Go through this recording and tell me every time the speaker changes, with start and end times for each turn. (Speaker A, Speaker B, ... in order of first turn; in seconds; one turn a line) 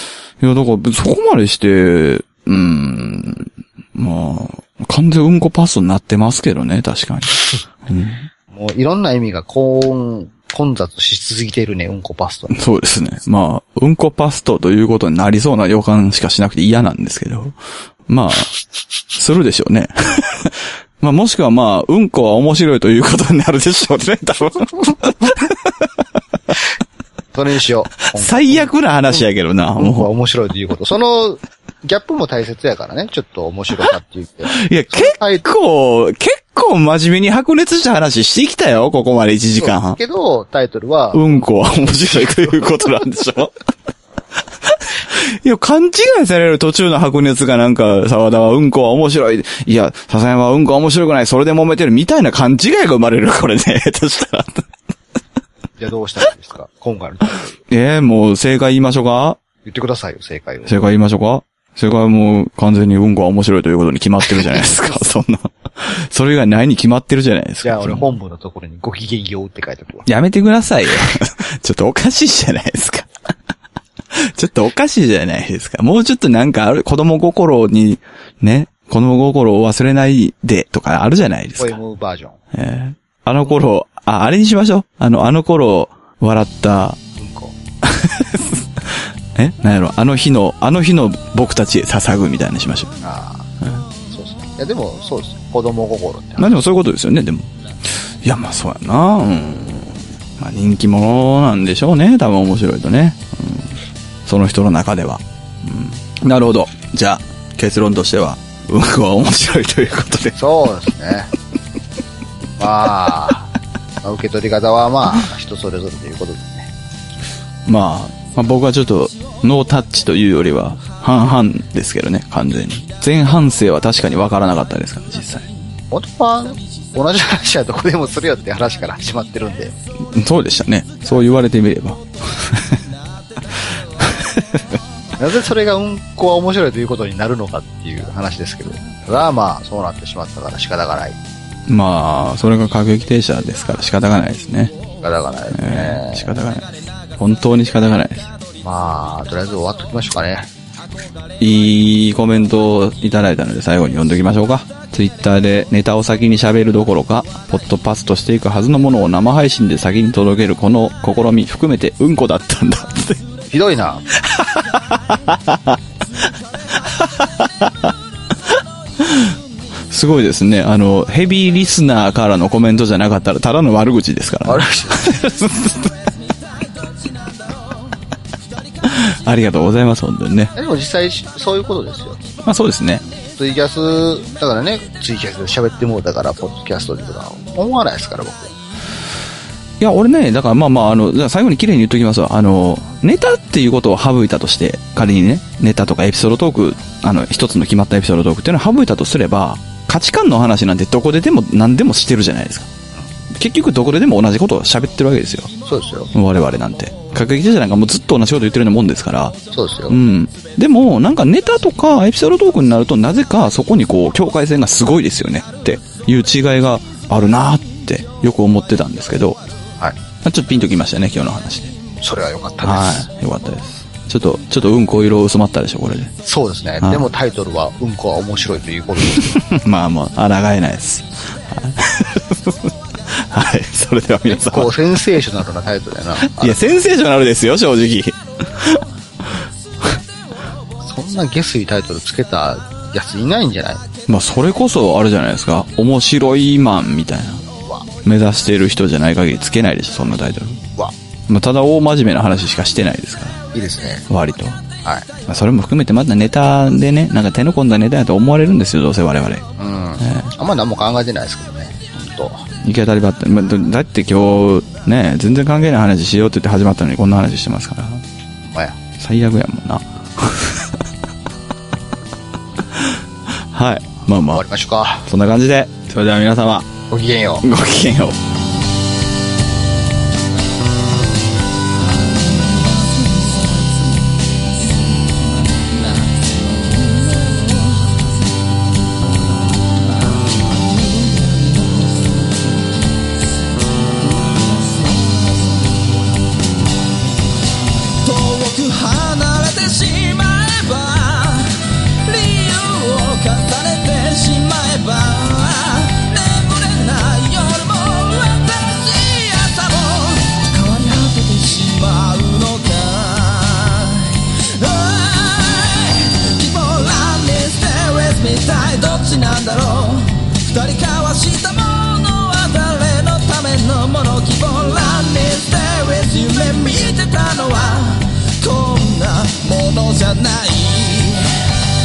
Speaker A: 0.4-8.3
Speaker B: 8.5-12.5
Speaker A: 12.5-17.6
Speaker A: 18.1-18.5
Speaker A: 19.1-25.9
Speaker B: 27.3-29.2
Speaker A: 28.1-30.1
Speaker B: 29.8-35.4
Speaker A: 34.5-40.0
Speaker B: 39.6-41.3
Speaker A: 41.1-43.5
Speaker A: 44.6-54.7
Speaker B: 55.8-57.6
Speaker A: 57.7-59.4
Speaker B: 59.6-60.7
Speaker A: 60.7-68.1
Speaker B: 67.6-70.1
Speaker A: 70.0-73.1
Speaker A: 74.1-81.8
Speaker B: 81.6-82.4
Speaker A: 82.5-87.0
Speaker B: 87.2-87.6
Speaker A: 87.8-93.0
Speaker B: 93.0-93.5
Speaker B: 94.1-96.6
Speaker A: 96.4-97.5
Speaker A: 98.2-103.7
Speaker A: 104.2-110.4
Speaker B: 110.3-111.3
Speaker B: 112.6-113.5
Speaker B: 114.0-116.7
Speaker A: 117.7-125.5
Speaker B: 125.9-129.7
Speaker A: 130.1-132.8
Speaker A: 134.0-134.8
Speaker B: 135.2-141.2
Speaker A: 141.7-144.7
Speaker B: 145.0-146.4
Speaker A: 145.5-148.3
Speaker B: 148.6-150.5
Speaker A: 151.4-163.2
Speaker B: 163.5-164.1
Speaker A: 164.2-165.8
Speaker A: 166.7-167.9
Speaker A: 169.0-169.3
Speaker A: 169.9-175.9
Speaker B: 174.4-175.2
Speaker A: 178.8-180.5
Speaker B: 180.5-182.2
Speaker A: 182.4-183.0
Speaker B: 183.4-188.5
Speaker A: 189.8-202.7
Speaker A: 203.3-205.5
Speaker B: 205.7-206.1
Speaker A: 206.1-209.3
Speaker B: 209.5-210.0
Speaker A: 209.9-219.4
Speaker A: 220.2-221.7
Speaker B: 222.0-223.1
Speaker A: 222.6-226.1
Speaker B: 226.2-229.4
Speaker A: 226.8-227.1
Speaker A: 229.1-234.7
Speaker B: 234.3-236.6
Speaker A: 236.2-238.8
Speaker B: 240.8-243.8
Speaker A: 244.1-247.4
Speaker A: 248.0-250.6
Speaker A: 251.3-253.4
Speaker B: 253.5-254.1
Speaker A: 254.1-254.6
Speaker A: 255.2-259.4
Speaker B: 259.6-262.4
Speaker A: 260.0-260.3
Speaker A: 262.6-268.0
Speaker B: 268.5-268.8
Speaker A: 269.0-270.8
Speaker A: 273.5-274.4
Speaker B: 274.3-275.1
Speaker A: 275.1-276.7
Speaker B: 276.9-277.4
Speaker A: 277.4-278.1
Speaker C: 282.9-283.6
Speaker C: 285.9-287.9
Speaker C: 291.1-291.8
Speaker C: 294.7-295.3
Speaker C: 298.0-331.4